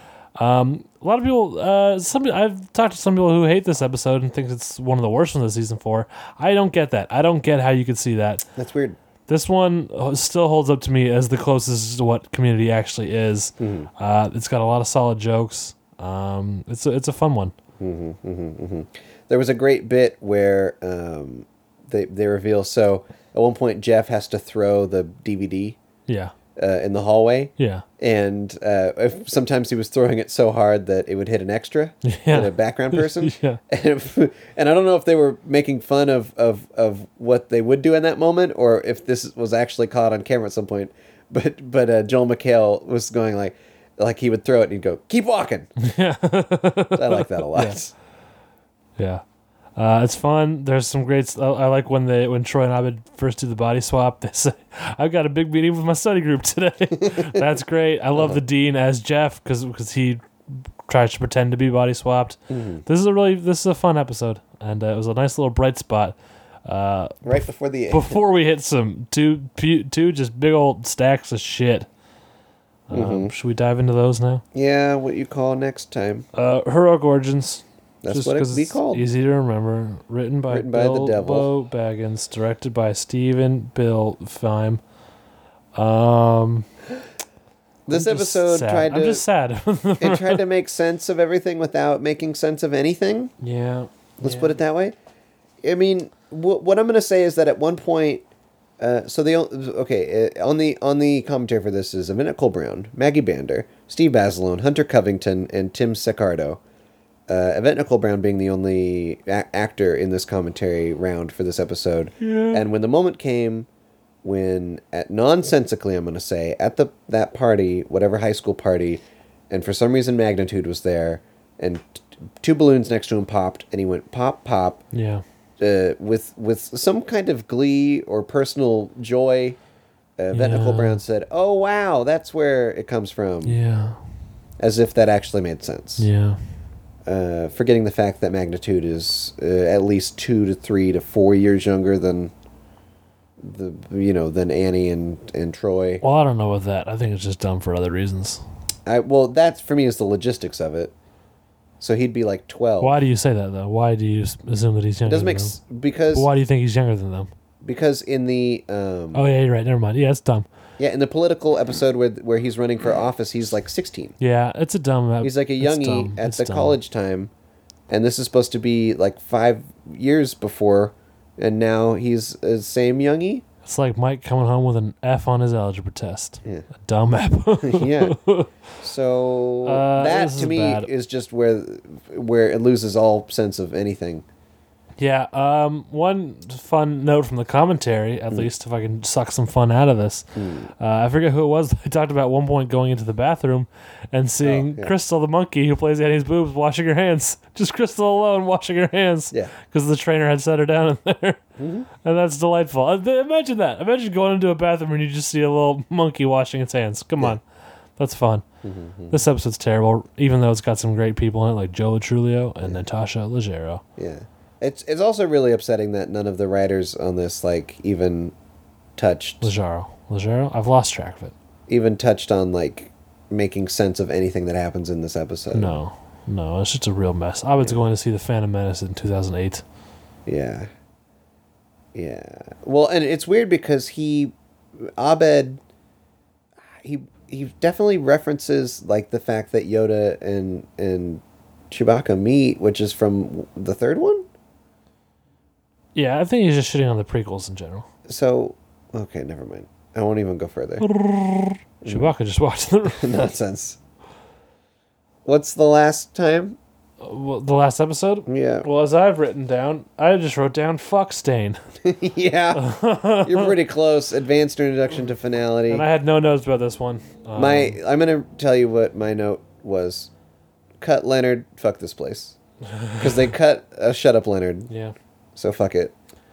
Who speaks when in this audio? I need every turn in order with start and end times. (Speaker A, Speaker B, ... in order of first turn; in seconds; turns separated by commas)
Speaker A: 0.4-8.4, Speaker B: 8.6-9.0, Speaker A: 9.3-17.5, Speaker B: 13.6-13.9, Speaker B: 17.8-25.8, Speaker A: 26.1-26.3, Speaker B: 26.6-45.7, Speaker A: 27.6-27.8, Speaker A: 32.0-33.6, Speaker A: 45.8-47.8, Speaker B: 46.9-47.9, Speaker A: 49.0-49.2, Speaker A: 49.8-71.9, Speaker B: 57.0-57.4, Speaker B: 58.1-58.4, Speaker B: 62.5-62.8, Speaker B: 67.2-68.2, Speaker A: 72.9-74.4, Speaker B: 72.9-73.3, Speaker B: 74.5-76.2, Speaker A: 76.3-84.8, Speaker B: 78.0-79.0, Speaker B: 80.5-81.5, Speaker A: 85.7-86.7, Speaker B: 87.9-89.2, Speaker A: 87.9-90.4, Speaker B: 90.0-93.3, Speaker A: 93.4-94.6, Speaker B: 94.2-95.0, Speaker B: 95.6-98.2, Speaker B: 98.8-106.6, Speaker B: 107.3-113.7, Speaker A: 112.2-112.6, Speaker B: 114.2-124.8, Speaker A: 124.9-125.2, Speaker B: 125.6-129.6, Speaker B: 130.2-133.6, Speaker A: 130.3-131.0, Speaker A: 133.4-134.0, Speaker B: 134.6-136.1, Speaker A: 136.0-136.4, Speaker B: 137.1-142.3, Speaker B: 143.4-146.0, Speaker A: 146.0-148.4, Speaker B: 148.8-150.9, Speaker B: 151.8-153.0, Speaker A: 152.8-155.6, Speaker B: 155.1-156.3, Speaker A: 156.1-157.3, Speaker B: 157.6-159.3, Speaker A: 159.1-160.5, Speaker B: 160.8-164.1, Speaker A: 164.2-166.8, Speaker B: 165.2-167.3, Speaker B: 167.9-173.4, Speaker A: 173.6-178.5, Speaker B: 177.6-178.2, Speaker B: 178.8-184.2, Speaker A: 179.6-180.9, Speaker A: 185.0-190.3, Speaker B: 190.3-190.7, Speaker A: 190.8-201.4, Speaker B: 194.4-194.9, Speaker B: 201.6-201.9, Speaker A: 202.0-207.4, Speaker A: 208.0-208.4, Speaker B: 208.6-209.2, Speaker A: 209.1-213.8, Speaker B: 214.0-218.3, Speaker B: 219.0-219.5, Speaker A: 219.4-221.3, Speaker B: 221.7-225.8, Speaker A: 225.5-229.6, Speaker B: 230.2-230.7, Speaker B: 231.9-235.6, Speaker B: 236.8-244.2, Speaker A: 245.9-247.8, Speaker B: 248.1-250.9, Speaker A: 250.8-253.1, Speaker B: 251.8-252.1, Speaker B: 252.9-253.8, Speaker B: 255.2-256.6, Speaker A: 257.0-261.6, Speaker B: 258.3-258.7, Speaker B: 261.8-262.6, Speaker A: 262.5-263.5, Speaker B: 263.2-265.8, Speaker A: 265.7-267.8, Speaker B: 267.3-270.1, Speaker B: 270.8-272.4, Speaker A: 272.6-273.3, Speaker B: 273.0-274.7, Speaker A: 274.7-274.9, Speaker B: 275.4-275.9